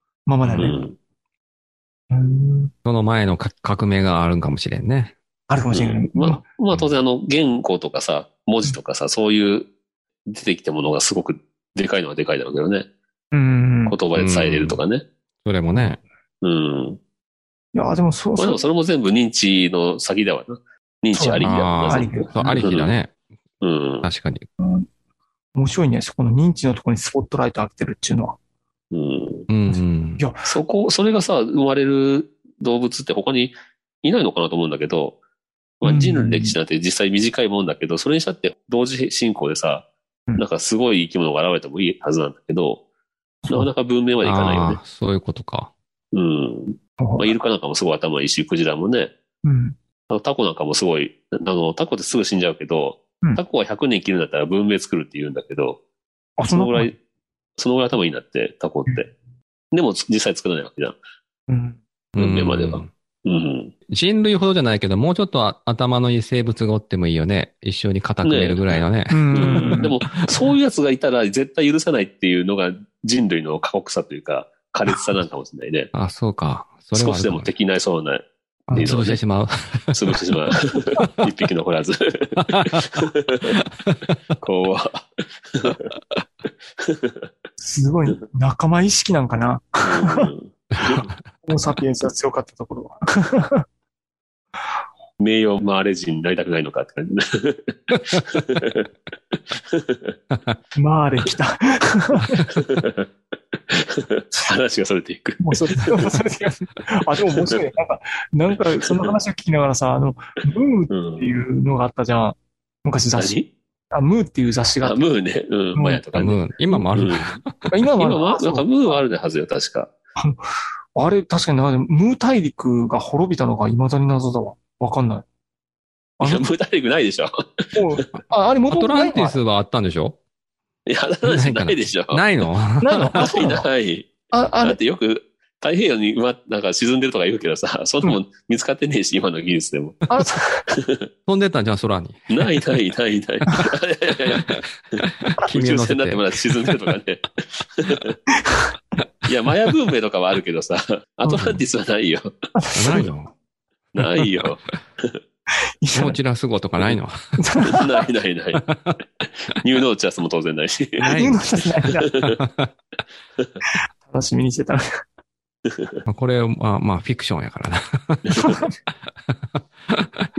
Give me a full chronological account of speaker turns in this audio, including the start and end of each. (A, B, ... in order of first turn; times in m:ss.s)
0:00.2-0:00.8 A
0:00.5-0:00.7 B
0:00.6-0:00.9 C
0:02.1-0:02.7 A
0:02.8-0:05.1 B
0:05.5-0:06.4 A
0:05.7-0:09.7 C
0:10.3-0:12.9 C
0:13.3-0:14.0 A
0:13.9-0:15.0 C
0:14.2-0:14.8 B
0:15.4-0:16.0 B
0:16.4-0:17.0 C
0:17.7-0:18.6 A
0:18.4-0:22.9 C
0:21.1-0:22.6 A
0:21.4-0:23.1 B
0:23.6-0:24.1 C
0:24.0-0:24.4 B
0:24.6-0:24.9 A
0:25.5-0:28.4 A
0:28.9-0:29.5 C
0:29.5-0:30.2 B
0:29.7-0:30.4 A
0:30.4-0:35.2 C
0:35.8-0:39.8 C
0:35.8-0:36.6 A
0:40.4-0:42.8 C
0:43.5-0:44.8 C
0:44.2-0:45.7 B
0:46.1-0:49.1 C
0:47.0-0:47.3 A
0:49.4-0:49.8 A
0:50.1-0:55.8 C
0:56.4-0:56.9 A
0:56.5-0:56.9 C
0:57.6-0:59.1 C
0:59.7-1:01.0 C
1:01.5-1:01.8 A
1:02.1-1:02.9 B
1:02.2-1:03.7 C
1:03.9-1:10.3 B
1:08.2-1:15.9 C
1:09.1-1:09.9 A
1:15.9-1:17.5 B
1:16.9-1:19.2 C
1:18.7-1:18.9 A
1:18.8-1:20.2 B
1:19.9-1:23.6 C
1:22.4-1:23.0 B
1:23.8-1:24.1 B
1:24.4-1:25.9 C
1:26.8-1:27.3 C
1:27.6-1:30.3 A
1:29.8-1:31.1 C
1:30.8-1:31.1 B
1:31.4-1:33.6 A
1:35.2-1:40.2 C
1:40.3-1:40.6 B
1:40.8-1:42.4 A
1:42.5-1:43.1 C
1:43.7-1:46.2 C
1:45.4-1:53.4 A
1:48.8-1:49.1 C
1:50.9-1:51.4 C
1:53.2-1:53.5 C
1:53.9-1:55.0 A
1:54.8-1:56.4 C
1:55.7-1:56.0 A
1:56.1-1:57.7 B
1:56.9-1:57.4 C
1:57.7-1:59.0 A
1:58.0-1:59.9 C
2:00.9-2:05.2 A
2:06.2-2:06.5 A
2:06.2-2:08.0 C
2:07.7-2:09.4 A
2:08.7-2:10.2 B
2:10.8-2:12.2 C
2:11.2-2:13.4 B
2:12.8-2:13.6 A
2:13.1-2:20.1 C
2:14.3-2:14.8 A
2:20.1-2:20.6 A
2:20.7-2:21.0 C
2:21.3-2:22.3 B
2:22.3-2:28.1 C
2:24.5-2:26.8 B
2:29.3-2:32.3 C
2:31.3-2:31.6 B
2:32.6-2:33.1 A
2:32.7-2:33.3 B
2:33.9-2:35.2 C
2:34.0-2:34.5 B
2:35.8-2:36.2 A
2:35.9-2:37.4 B
2:37.4-2:37.9 A
2:37.6-2:38.6 C
2:38.6-2:39.0 B
2:39.2-2:41.2 C
2:41.0-2:41.4 B
2:41.0-2:42.1 A
2:42.0-2:42.4 C
2:42.2-2:42.7 B
2:44.0-2:44.8 A
2:45.7-2:46.0 C
2:46.0-2:48.5 B
2:48.4-2:48.7 A
2:49.3-2:50.3 B